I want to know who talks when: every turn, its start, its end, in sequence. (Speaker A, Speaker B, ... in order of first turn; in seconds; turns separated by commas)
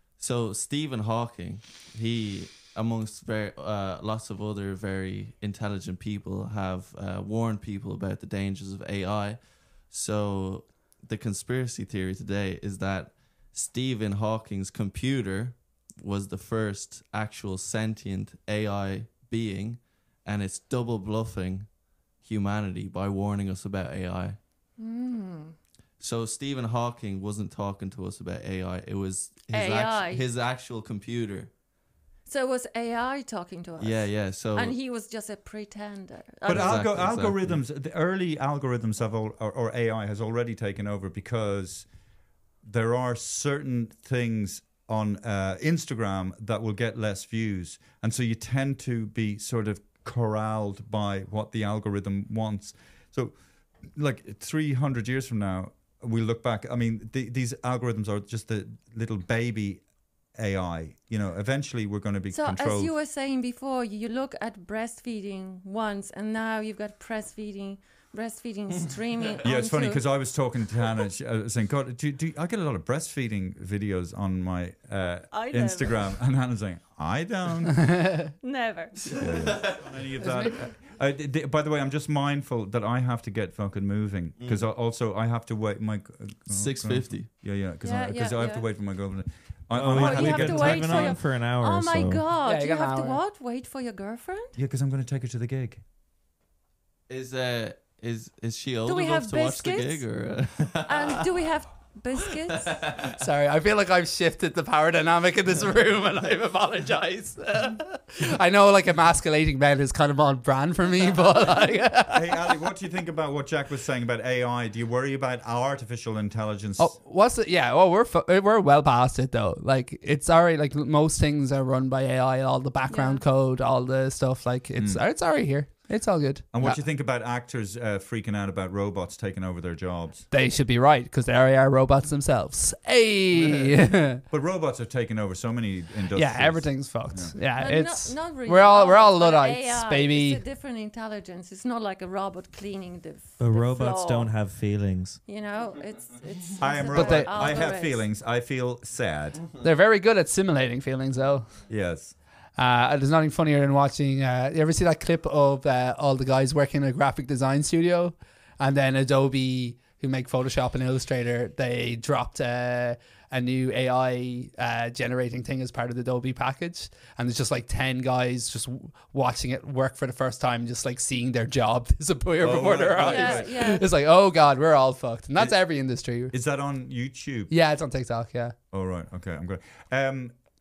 Speaker A: 0.2-21.7, Speaker A: 22.2-24.4, Speaker B: 24.8-25.6, Speaker A: 26.0-31.5, Speaker B: 29.5-30.2, Speaker B: 32.3-36.9, Speaker A: 33.8-34.8, Speaker C: 36.5-41.9, Speaker A: 36.5-37.6, Speaker C: 42.6-53.4, Speaker C: 53.9-59.8, Speaker C: 60.4-62.9, Speaker B: 62.3-70.1, Speaker C: 69.4-78.1, Speaker B: 75.3-76.1, Speaker D: 77.8-78.2, Speaker B: 78.4-79.2, Speaker A: 79.0-79.8, Speaker C: 79.2-91.2, Speaker D: 80.2-80.6, Speaker A: 84.4-84.7, Speaker A: 86.5-87.3, Speaker B: 87.8-88.7, Speaker E: 89.7-92.2, Speaker B: 89.9-94.5, Speaker D: 92.5-93.2, Speaker C: 94.6-95.8, Speaker A: 97.1-101.4, Speaker B: 98.9-100.1, Speaker B: 100.8-102.8, Speaker A: 102.3-103.1, Speaker D: 103.2-112.3, Speaker C: 112.1-116.9, Speaker D: 116.8-126.8, Speaker B: 122.9-123.2, Speaker C: 124.8-125.0, Speaker C: 126.5-130.3, Speaker D: 130.3-134.2, Speaker C: 134.3-137.3, Speaker D: 136.1-140.4, Speaker B: 137.6-144.3, Speaker E: 143.4-145.2, Speaker B: 145.3-148.1, Speaker C: 146.6-149.4, Speaker D: 146.9-147.5, Speaker D: 149.6-151.5, Speaker C: 151.7-152.1, Speaker D: 152.6-176.3, Speaker C: 172.4-173.7, Speaker B: 173.0-173.9, Speaker C: 175.4-175.7, Speaker C: 176.3-177.5, Speaker D: 177.5-178.6, Speaker C: 178.7-180.3